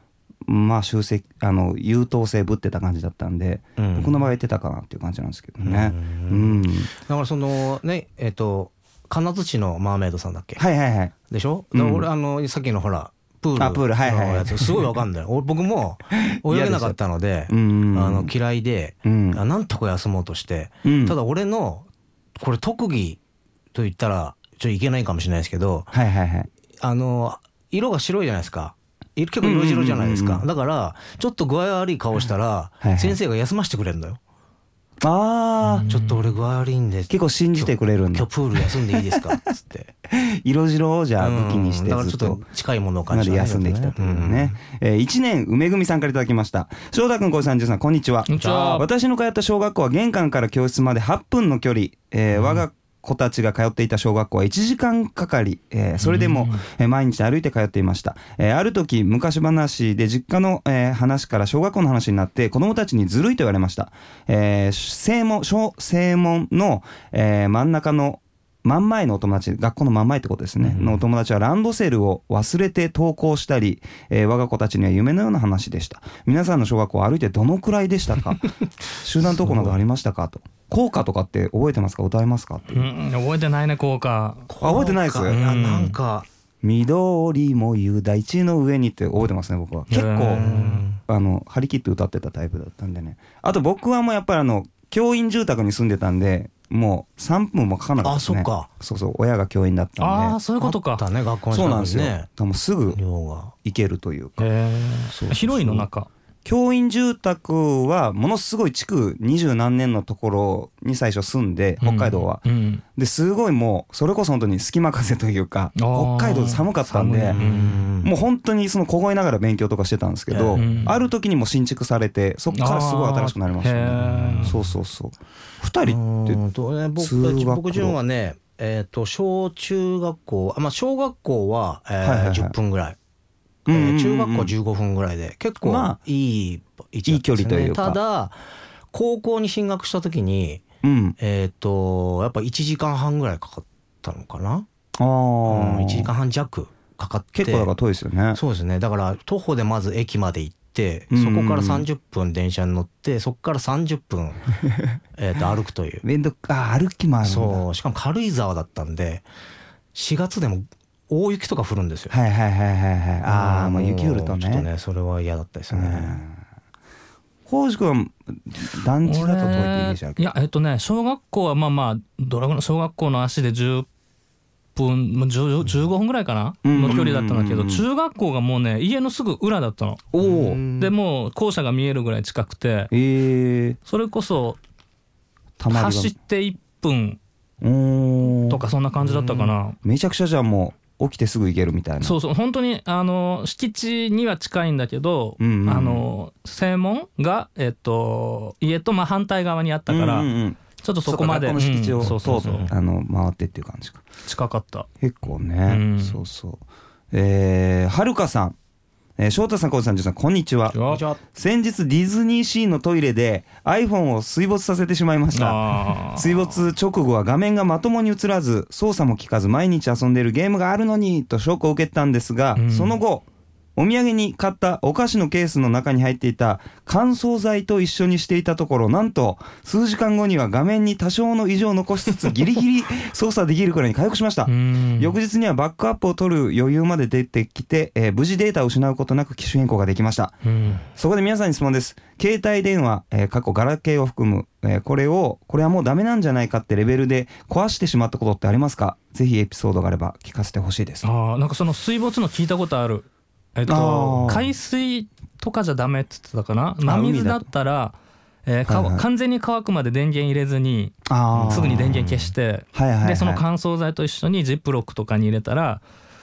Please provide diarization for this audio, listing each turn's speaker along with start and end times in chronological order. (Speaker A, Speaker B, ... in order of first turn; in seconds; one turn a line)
Speaker A: 0.5-6.9
Speaker B: 3.8-4.2
Speaker B: 5.6-10.6
Speaker A: 10.6-11.1
Speaker B: 11.3-23.2
Speaker A: 11.7-12.1
Speaker A: 13.6-14.9
Speaker A: 16.1-16.9
Speaker A: 17.5-18.3
Speaker A: 19.0-19.4
Speaker A: 20.8-21.2
Speaker B: 23.7-25.9
Speaker A: 25.9-26.5
Speaker B: 26.8-34.2
Speaker A: 29.4-30.4
Speaker A: 32.8-33.2
Speaker A: 35.0-35.9
Speaker C: 35.8-36.1
Speaker B: 35.8-39.9
Speaker A: 37.1-39.4
Speaker A: 40.1-42.4
Speaker B: 41.2-44.6
Speaker A: 43.1-82.9
Speaker C: 48.3-48.9
Speaker B: 48.4-48.8
Speaker B: 52.3-52.6
Speaker C: 56.0-56.6
Speaker B: 70.6-71.0
Speaker B: 79.3-79.8
Speaker C: 82.7-84.5
Speaker B: 84.5-86.3
Speaker A: 84.6-85.4
Speaker C: 85.3-86.0
Speaker A: 86.6-100.4
Speaker C: 89.9-90.8
Speaker B: 90.3-91.0
Speaker B: 98.0-98.7
Speaker C: 100.0-101.0
Speaker B: 100.6-102.3
Speaker A: 101.5-103.0
Speaker B: 102.9-103.5
Speaker A: 103.6-104.5
Speaker C: 104.4-106.1
Speaker A: 105.1-105.9
Speaker A: 106.4-112.4
Speaker C: 111.8-112.8
Speaker A: 113.0-117.4
Speaker C: 115.8-117.8
Speaker B: 117.3-118.1
Speaker A: 118.0-126.4
Speaker B: 120.3-120.9
Speaker C: 120.5-121.0
Speaker C: 122.5-124.6
Speaker B: 124.1-124.6
Speaker B: 125.8-133.0
Speaker A: 127.0-128.0
Speaker A: 132.0-132.5
Speaker A: 133.7-134.5
Speaker B: 133.7-138.4
Speaker A: 135.6-136.0
Speaker A: 137.1-138.0
Speaker B: 138.9-140.6
Speaker A: 140.8-141.2
Speaker B: 141.2-144.7
Speaker A: 145.0-146.1
Speaker B: 145.4-147.7
Speaker A: 147.3-148.4
Speaker B: 148.3-154.4
Speaker A: 151.1-151.9
Speaker A: 154.7-155.0
Speaker B: 155.2-156.0
Speaker A: 156.0-157.6
Speaker B: 157.2-159.2
Speaker B: 159.9-162.2
Speaker A: 162.1-164.7
Speaker B: 163.2-166.2
Speaker A: 165.7-166.4
Speaker A: 167.5-170.3
Speaker C: 169.0-173.9
Speaker C: 174.7-180.1
Speaker A: 176.6-177.8
Speaker A: 180.1-180.6
Speaker B: 180.2-180.9
Speaker C: 180.6-182.9
Speaker A: 182.9-183.8
Speaker C: 183.9-184.6
Speaker A: 185.6-186.1
Speaker C: 185.7-187.2
Speaker A: 187.6-188.6
Speaker C: 188.5-189.8
Speaker B: 189.0-189.5
Speaker A: 189.8-192.2
Speaker C: 192.0-202.7
Speaker A: 195.4-196.1
Speaker A: 199.9-204.0
Speaker B: 202.0-202.7
Speaker C: 204.2-204.9
Speaker A: 205.0-208.6
Speaker C: 205.7-206.2
Speaker A: 209.2-240.4
Speaker C: 210.7-211.0
Speaker B: 210.8-211.2
Speaker C: 215.3-216.6
Speaker C: 222.5-223.0
Speaker C: 234.4-235.1
Speaker C: 240.4-240.8
Speaker A: 240.9-251.1
Speaker C: 251.0-265.8
Speaker A: 253.7-254.5
Speaker A: 256.8-257.5
Speaker A: 258.6-259.0
Speaker A: 261.1-263.4
Speaker B: 261.3-262.2